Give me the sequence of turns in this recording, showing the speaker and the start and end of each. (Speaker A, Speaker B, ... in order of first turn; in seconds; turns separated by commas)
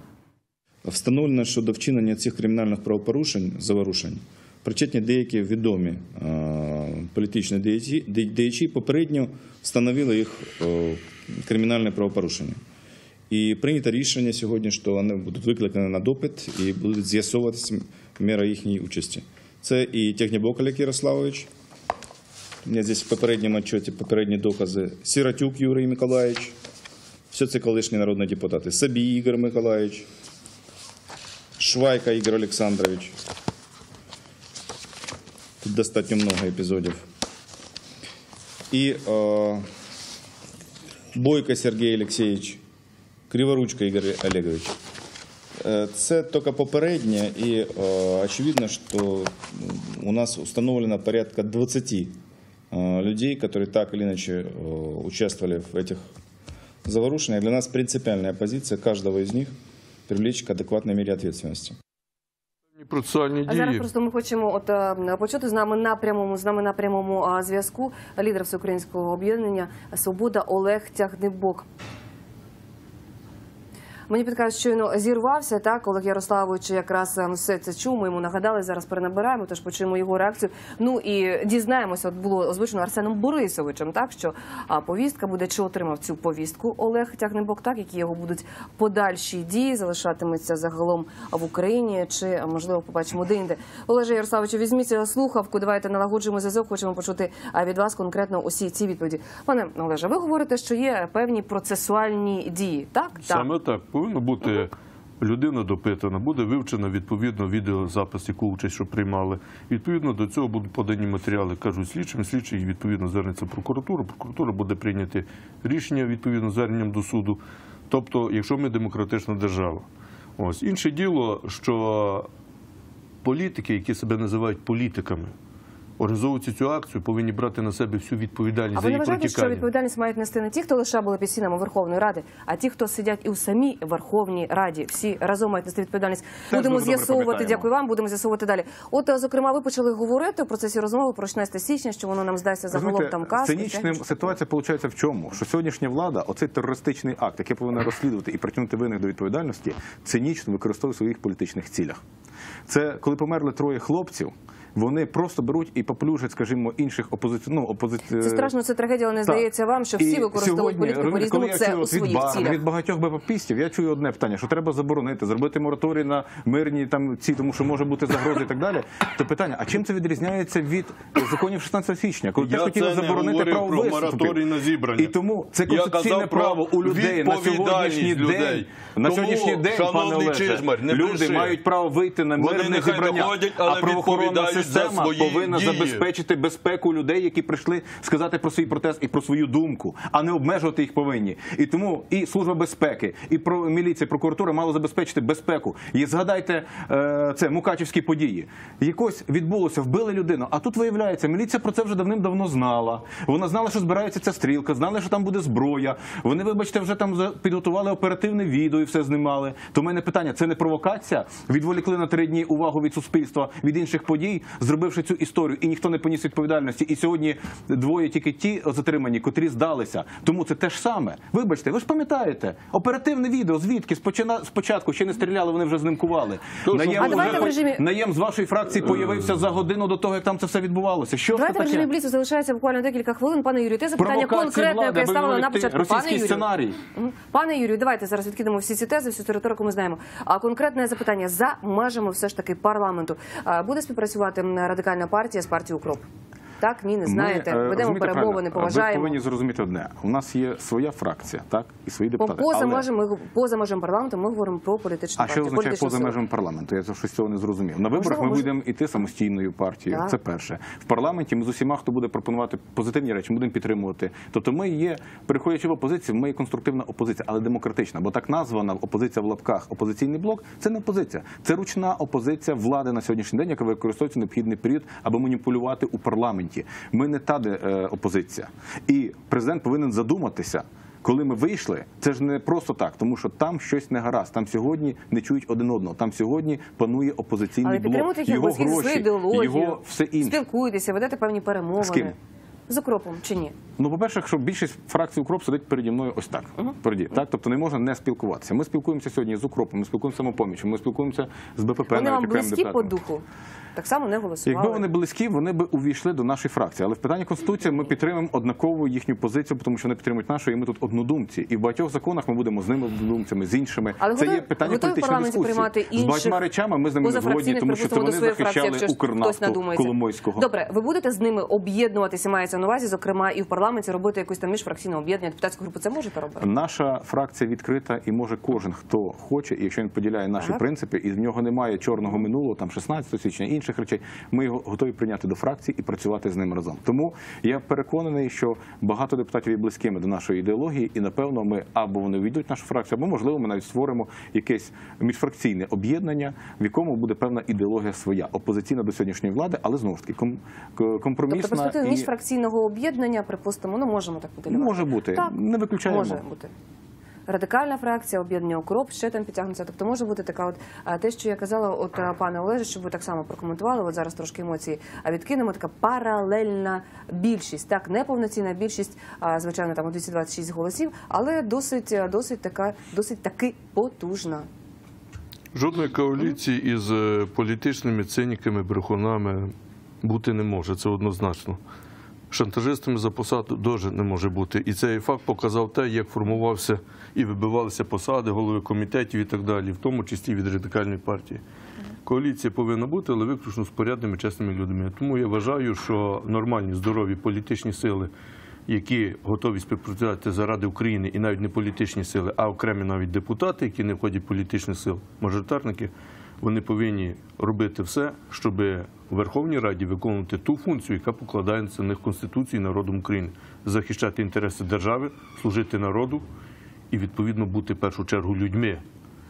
Speaker A: 0.8-12.6, Speaker A: 13.3-21.5, Speaker A: 22.6-26.6, Speaker A: 27.3-30.1, Speaker A: 31.6-33.1, Speaker A: 35.6-37.0, Speaker A: 38.7-39.7, Speaker A: 41.1-42.6, Speaker A: 43.3-44.8, Speaker A: 45.6-52.2, Speaker A: 52.7-56.0, Speaker A: 56.9-59.5, Speaker A: 60.1-61.8, Speaker B: 62.8-63.9, Speaker C: 63.5-71.7, Speaker C: 74.1-103.5, Speaker B: 103.3-119.9, Speaker B: 120.4-122.3, Speaker B: 123.2-125.3, Speaker B: 126.0-129.7, Speaker C: 128.8-144.0, Speaker D: 136.5-137.7, Speaker D: 142.7-152.0, Speaker D: 152.7-158.5, Speaker C: 158.2-162.6, Speaker D: 160.0-174.4, Speaker B: 172.4-175.1, Speaker D: 174.9-231.9, Speaker B: 175.7-181.6, Speaker B: 182.4-186.1, Speaker B: 226.7-227.6, Speaker C: 227.0-227.8, Speaker C: 231.3-246.1, Speaker D: 234.0-236.8, Speaker C: 246.6-249.2, Speaker D: 247.1-252.9, Speaker C: 252.2-256.2, Speaker D: 255.2-290.4, Speaker C: 258.0-258.5, Speaker C: 259.9-260.2, Speaker C: 287.6-292.1, Speaker D: 291.8-292.1, Speaker C: 292.7-293.6, Speaker D: 293.8-302.9, Speaker C: 301.9-303.2, Speaker C: 303.8-304.8, Speaker D: 304.5-320.5, Speaker C: 314.0-316.4, Speaker C: 317.0-326.5, Speaker D: 326.4-352.1, Speaker C: 351.3-356.5, Speaker D: 354.5-356.2, Speaker C: 357.3-374.5, Speaker B: 375.5-381.6, Speaker B: 382.3-391.4, Speaker B: 392.1-398.1, Speaker B: 398.7-416.2, Speaker B: 416.9-418.8